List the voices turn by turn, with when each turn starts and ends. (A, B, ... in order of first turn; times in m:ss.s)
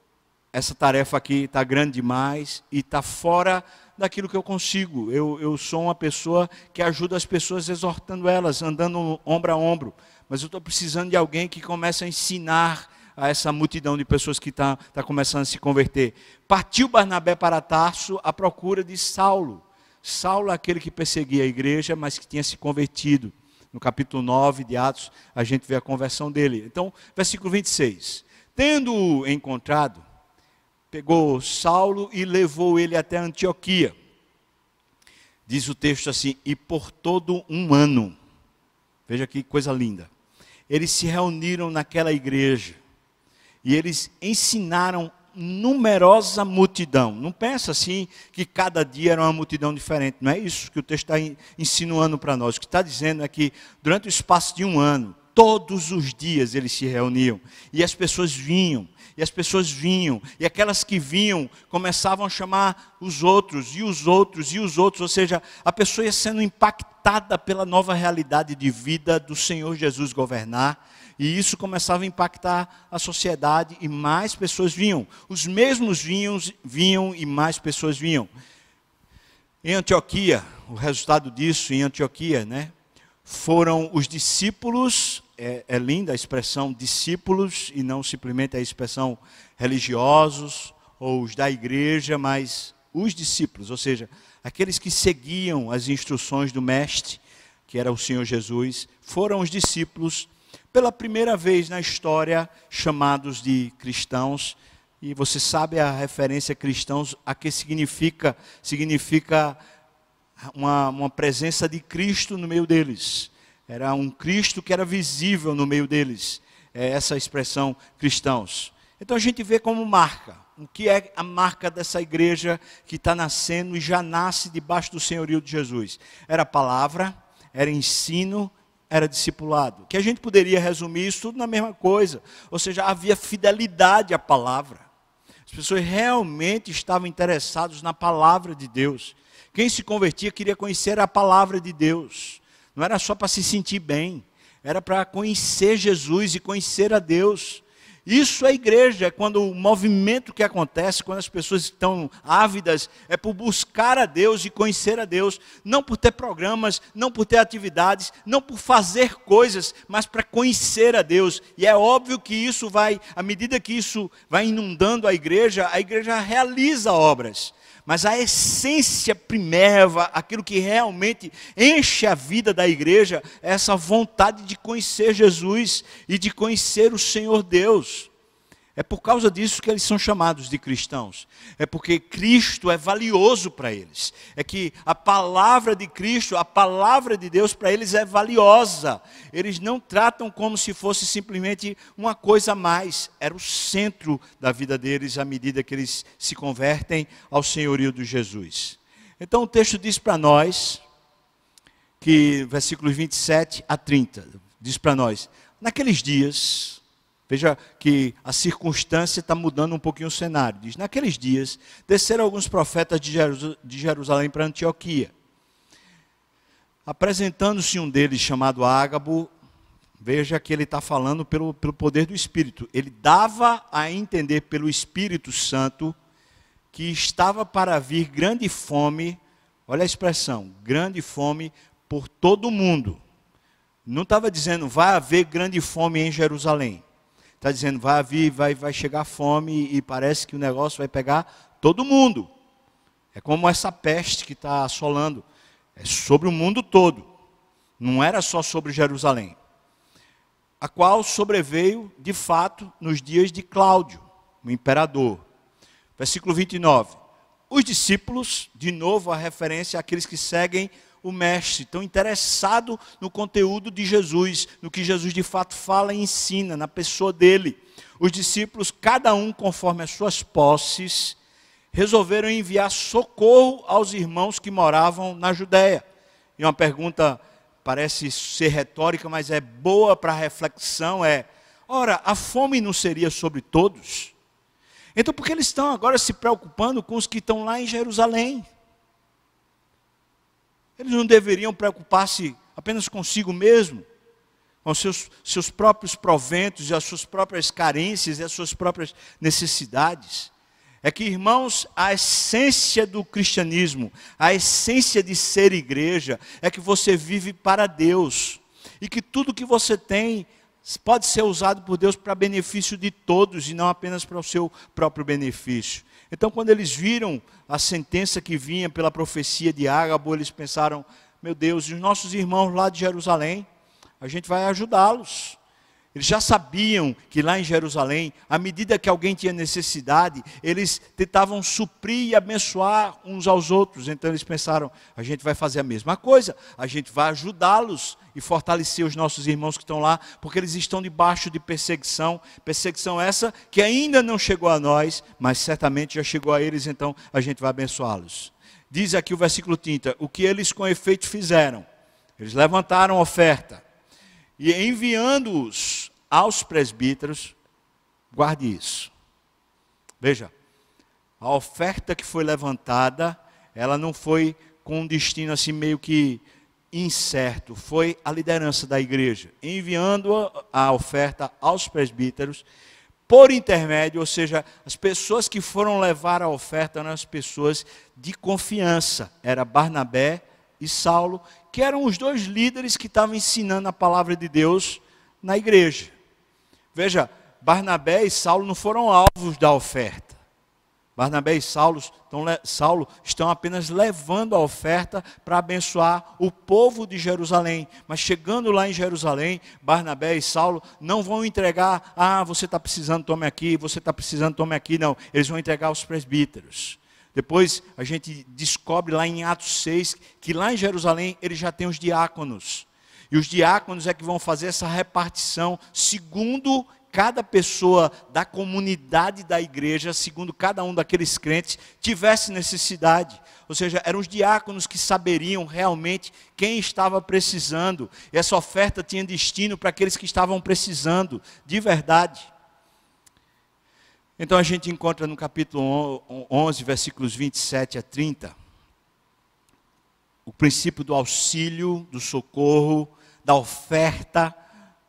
0:00.5-0:30.0 A
0:30.9-0:34.0 A
0:35.5-0:38.2 A
0:39.1-0:40.1 A
0:40.7-0:42.8 A
0:43.6-1:18.3 A
1:19.6-1:22.7 A
1:23.2-1:49.6 A
1:50.4-2:14.9 A
2:15.5-2:58.1 A
2:58.8-3:20.8 A
3:22.0-3:35.1 A
3:36.9-3:39.3 A
3:40.0-3:46.0 A
3:46.7-3:53.0 A
3:53.9-3:56.8 A
3:57.4-4:02.3 A
4:03.1-4:05.2 A
4:05.8-4:07.1 A
4:07.8-4:09.4 A
4:10.6-4:15.2 A
4:16.0-4:17.0 A
4:17.5-4:31.2 A
4:31.7-4:35.8 A
4:36.4-4:44.1 A
4:45.0-4:48.4 A
4:50.8-4:53.9 A
4:54.6-5:00.3 A
5:00.8-5:23.5 A
5:24.0-5:25.4 A
5:25.9-5:51.7 A
5:52.2-5:53.6 A
5:54.4-5:57.4 A
5:58.1-5:58.9 A
6:00.0-6:00.3 A
6:01.2-6:12.4 A
6:13.1-6:25.9 A
6:26.7-6:30.2 A
6:31.0-7:12.3 A
7:14.2-7:18.4 A
7:20.3-7:24.4 A